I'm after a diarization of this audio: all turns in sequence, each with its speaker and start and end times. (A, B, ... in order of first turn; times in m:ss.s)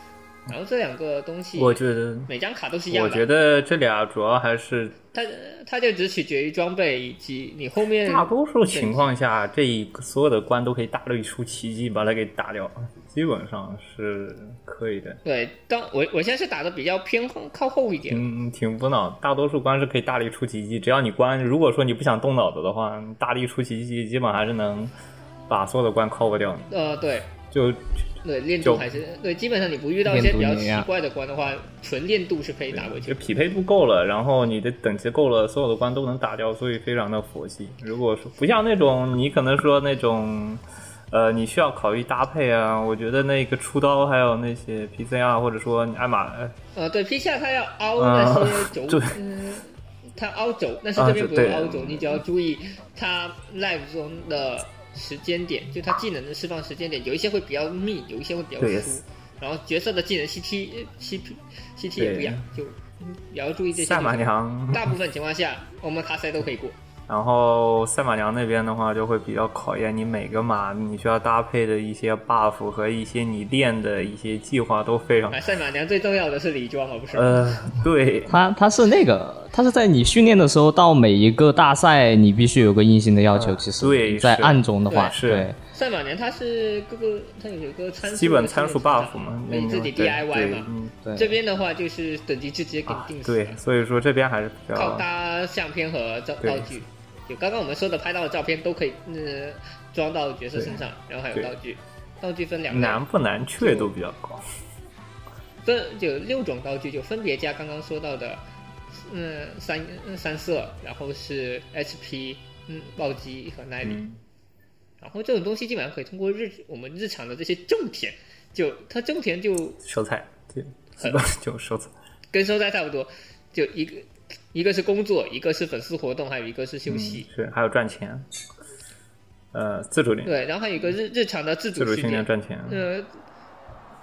0:00.5-0:03.2 A
0:01.6-0:02.3 B
0:02.9-0:05.0 B
0:05.1-0:09.0 A
0:08.0-0:15.2 B
0:15.2-0:18.2 A
0:18.1-0:24.9 B
0:25.5-0:26.7 B
0:26.7-0:27.3 A
0:27.5-0:27.8 B
0:28.2-0:33.2 A
0:28.6-0:28.8 B
0:30.1-0:30.9 C
0:32.7-0:46.5 B
0:46.7-1:06.7 A
0:48.0-0:49.1 B
0:51.0-0:52.2 B
0:58.6-0:59.0 B
1:02.0-1:02.4 B
1:03.7-1:04.9 B
1:07.1-1:15.4 B
1:15.3-1:17.4 A
1:17.1-1:18.3 B
1:18.3-1:25.5 C
1:23.3-1:25.5 B
1:24.9-1:25.2 A
1:25.7-1:33.6 A
1:28.0-1:31.0 B
1:31.0-1:31.3 C
1:32.9-1:35.0 B
1:34.7-1:43.0 A
1:36.4-1:36.7 B
1:40.6-1:40.8 B
1:42.7-1:44.4 B
1:43.6-1:43.9 A
1:45.6-1:48.4 A
1:48.9-1:54.0 A
1:53.8-1:54.2 B
1:55.0-1:59.8 A
1:59.8-2:01.9 B
2:02.3-2:07.3 A
2:06.9-2:08.3 B
2:09.5-2:10.3 B
2:10.2-2:13.1 A
2:11.8-2:12.9 B